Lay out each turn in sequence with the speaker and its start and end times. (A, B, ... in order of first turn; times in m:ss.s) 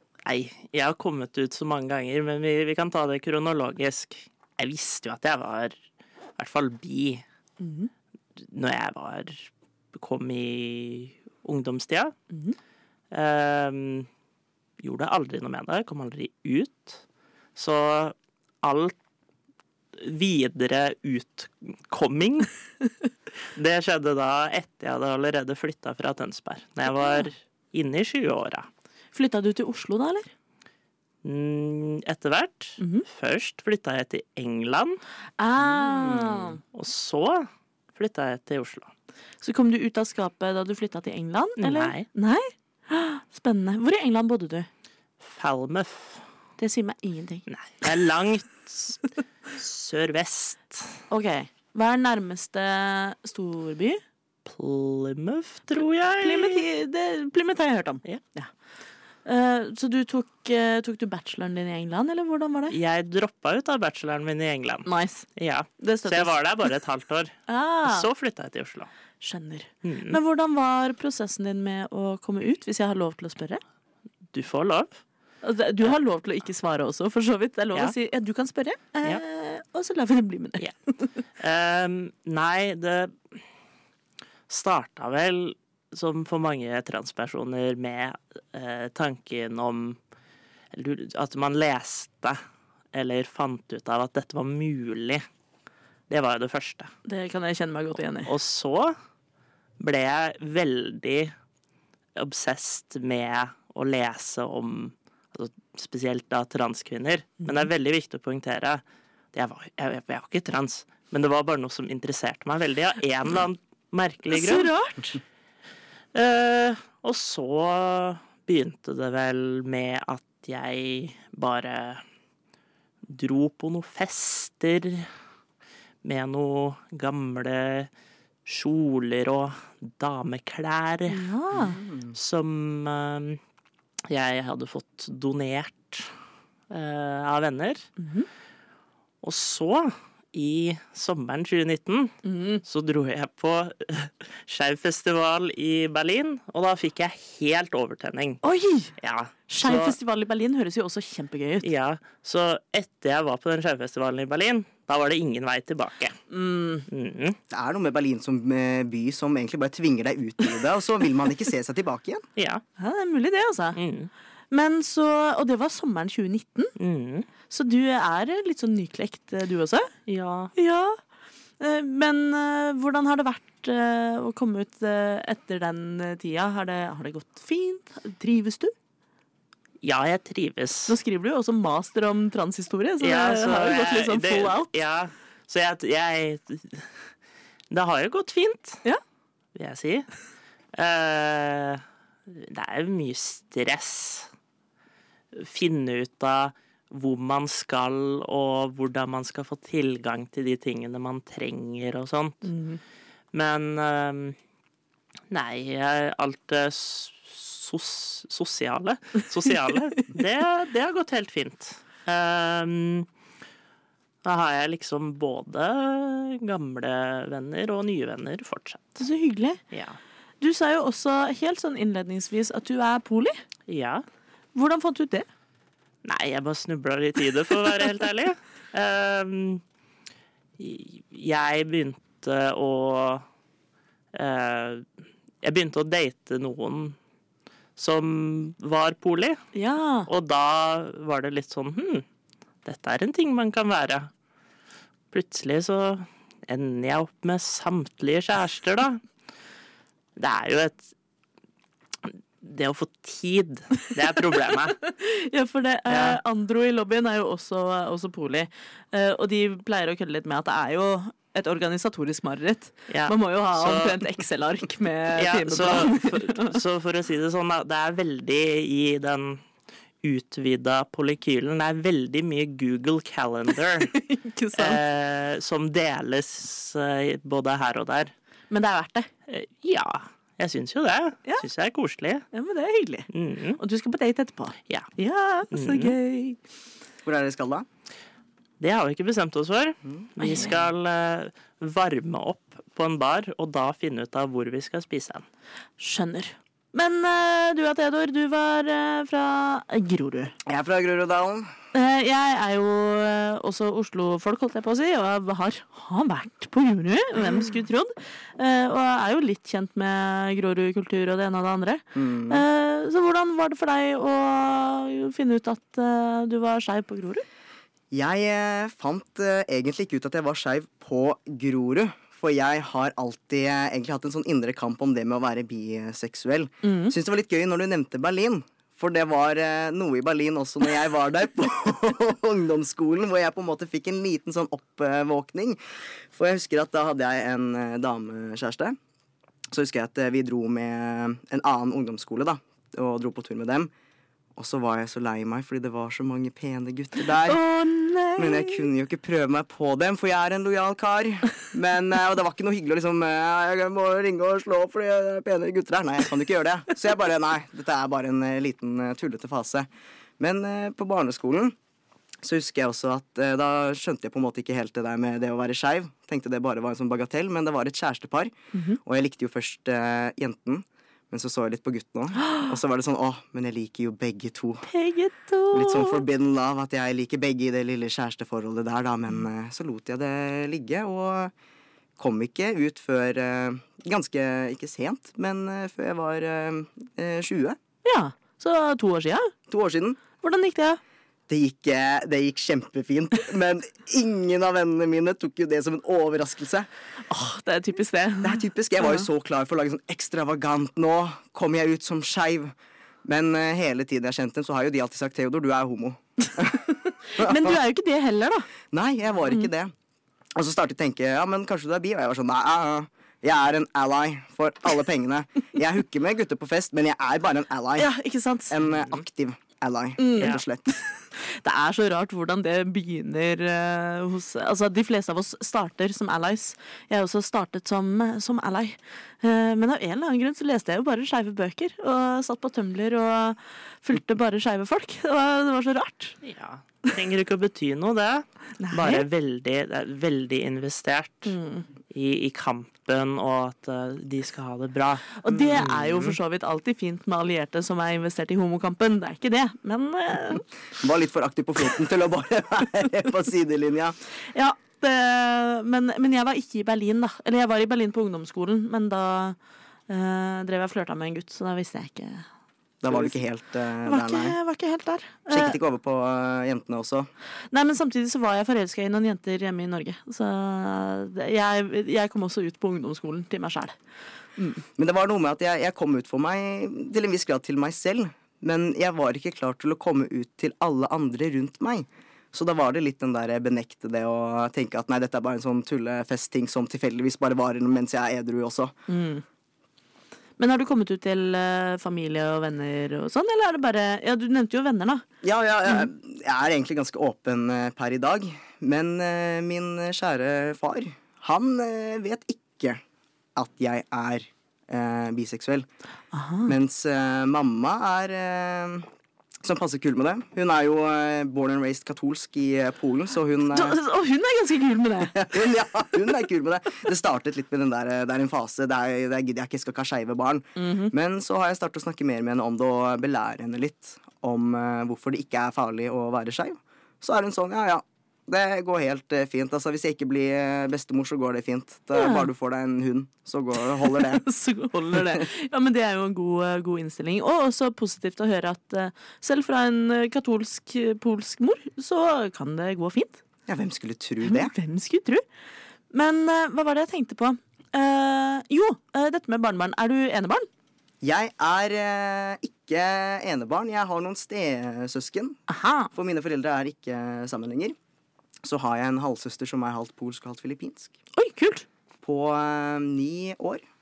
0:00.2-0:05.7 A
0:06.4-0:07.2 A
0:07.6-0:07.9 B
0:08.4-0:12.1 A
0:13.1-0:14.1 A
0:14.8-0:17.0 A
0:17.6-0:18.9 A
0:19.9-0:22.5 A
0:23.6-0:28.7 A
0:26.9-0:27.3 B
0:29.1-0:30.3 B
0:31.2-0:35.0 A
0:32.8-0:33.0 B
0:35.4-0:36.6 B
0:35.8-0:36.2 C
0:36.7-0:38.9 A
0:39.4-0:44.7 B
0:41.6-0:42.0 A
0:45.2-0:46.2 A
0:46.6-0:47.4 B
0:47.5-0:51.0 A
0:51.1-0:54.0 B
0:54.4-0:56.6 A
0:56.2-0:58.5 B
0:59.2-1:02.8 B
1:02.7-1:08.9 A
1:04.8-1:05.2 B
1:05.8-1:06.4 B
1:07.5-1:08.0 B
1:09.2-1:13.6 B
1:09.8-1:10.2 A
1:14.3-1:15.0 A
1:15.4-1:21.1 B
1:21.4-1:23.4 A
1:24.5-1:30.0 A
1:30.7-1:32.4 A
1:32.9-1:35.2 A
1:36.1-1:36.9 A
1:37.0-1:38.3 B
1:38.2-1:38.9 A
1:39.8-1:41.3 A
1:42.2-1:54.7 A
1:54.3-1:55.2 B
1:56.1-2:02.0 A
2:03.0-2:05.1 A
2:06.0-2:07.9 A
2:08.4-2:11.3 A
2:11.1-2:11.8 B
2:11.6-2:12.1 C
2:12.1-2:13.4 A
2:14.1-2:16.1 A
2:16.7-2:17.9 A
2:18.0-2:18.3 B
2:19.2-2:28.4 A
2:22.2-2:22.6 B
2:28.4-2:28.9 B
2:29.0-2:29.9 A
2:29.5-2:31.7 B
2:31.6-2:36.2 A
2:36.3-2:36.8 B
2:36.9-2:37.4 A
2:37.5-2:42.2 C
2:42.4-2:42.6 A
2:42.8-2:43.8 B
2:43.7-2:44.1 A
2:44.5-2:46.7 B
2:46.8-2:47.3 A
2:47.5-2:49.9 B
2:50.1-2:50.5 A
2:50.6-2:51.0 B
2:51.6-2:58.7 B
2:59.8-3:01.0 A
3:00.9-3:04.7 B
3:03.0-3:06.8 A
3:07.7-3:08.8 A
3:09.5-3:10.1 A
3:10.7-3:14.3 A
3:15.3-3:22.5 A
3:22.4-3:22.8 B
3:23.3-3:24.4 A
3:25.3-3:33.1 A
3:34.2-3:39.0 A
3:39.0-3:39.6 B
3:39.7-3:40.0 A
3:40.4-3:43.4 B
3:43.7-3:44.0 A
3:44.5-3:45.3 B
3:46.0-3:49.6 A
3:50.6-3:53.2 A
3:54.1-3:54.8 A
3:55.4-3:57.0 A
3:57.8-3:59.4 A
3:59.5-4:00.1 B
4:00.1-4:02.0 A
4:02.6-4:04.1 A
4:05.1-4:09.0 A
4:10.2-4:10.9 A
4:12.4-4:14.8 A
4:14.8-4:26.6 B
4:15.9-4:16.2 A
4:22.9-4:24.1 A
4:25.2-4:29.4 A
4:30.0-4:33.9 A
4:33.8-4:34.8 B
4:34.5-4:38.1 A
4:38.5-4:39.1 B
4:39.3-4:42.2 A
4:42.3-4:46.4 B
4:43.1-4:43.6 A
4:45.5-4:46.0 A
4:47.0-4:47.7 C
4:48.6-4:55.2 A
4:50.2-4:50.5 B
4:55.8-5:00.3 B
5:00.4-5:01.5 C
5:01.7-5:17.2 B
5:11.9-5:12.4 C
5:17.9-5:35.6 C
5:26.6-5:26.9 B
5:36.1-5:38.8 C
5:39.5-5:43.7 C
5:44.4-5:47.4 C
5:47.2-5:48.6 B
5:48.2-5:59.7 C
6:00.2-6:01.5 C
6:02.2-6:14.7 C
6:08.5-6:08.8 B
6:14.6-6:16.0 B
6:15.5-6:21.3 C
6:22.0-6:27.6 C
6:27.8-6:29.3 B
6:29.5-6:30.0 C
6:30.2-6:30.8 B
6:31.3-6:36.7 C
6:37.1-6:39.0 B
6:38.2-6:46.6 C
6:46.7-6:48.5 B
6:47.2-6:47.5 C
6:48.7-6:49.7 C
6:50.3-6:57.9 C
6:57.8-6:58.5 B
6:58.5-7:00.7 C
6:58.6-6:59.0 A
7:00.0-7:00.4 B
7:01.0-7:16.2 B
7:16.2-7:21.4 A
7:18.6-7:19.0 B
7:21.2-7:21.7 B
7:21.9-7:26.2 A
7:25.2-7:30.4 B
7:30.8-7:34.0 C
7:34.3-7:39.4 B
7:39.9-7:42.2 B
7:42.8-7:44.4 C
7:42.9-7:43.2 B
7:43.8-7:45.6 B
7:45.3-7:47.1 C
7:47.5-7:53.7 B
7:54.4-7:54.6 B
7:54.8-8:08.7 C
8:08.9-8:09.2 B
8:10.4-8:15.0 B
8:15.2-8:22.8 C
8:23.4-8:25.7 C
8:26.1-8:26.5 B
8:26.4-8:28.9 C
8:29.4-8:33.8 C
8:33.5-8:35.3 B
8:35.1-8:54.2 C
8:40.6-8:40.9 B
8:51.9-8:52.3 B
8:53.8-9:03.2 B
8:54.9-8:55.2 C
9:03.5-9:04.5 C
9:04.2-9:05.2 B
9:05.9-9:10.5 B
9:11.0-9:15.4 C
9:15.5-9:15.9 B
9:15.9-9:17.8 C
9:18.4-9:21.0 C
9:21.2-9:21.6 B
9:22.0-9:23.6 C